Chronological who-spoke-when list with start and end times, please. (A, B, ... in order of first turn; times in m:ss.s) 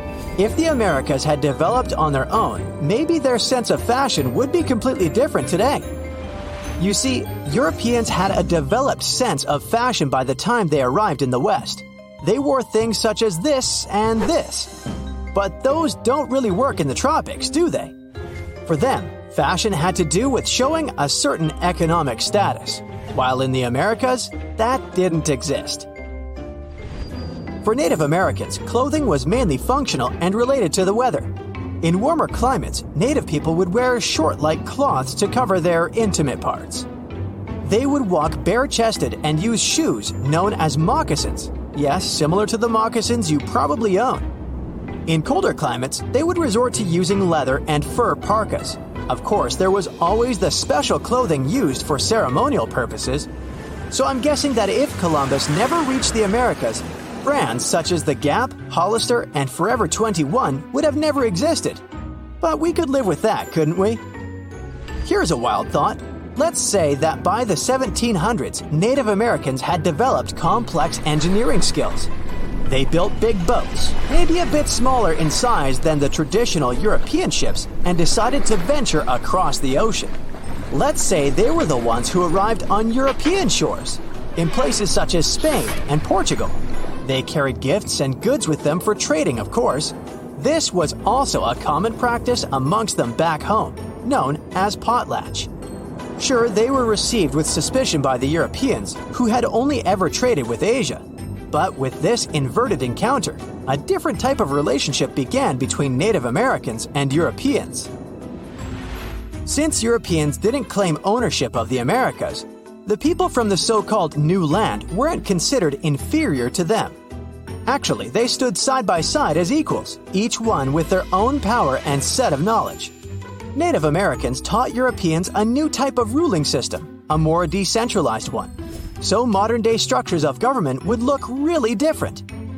0:00.4-0:05.9 A
0:06.8-0:14.7 A
0:15.3-0:17.9 A
0:18.6-0:25.9 A
0:27.6-0:36.9 A
0:37.6-0:44.3 A
0:45.1-0:53.3 A
0:53.9-1:01.8 A
1:02.4-1:04.0 A
1:05.0-1:12.1 A
1:12.6-1:20.2 A
1:20.7-1:35.5 A
1:36.2-1:47.9 A
1:49.4-1:57.0 A
1:57.6-2:02.9 A
2:03.5-2:12.2 A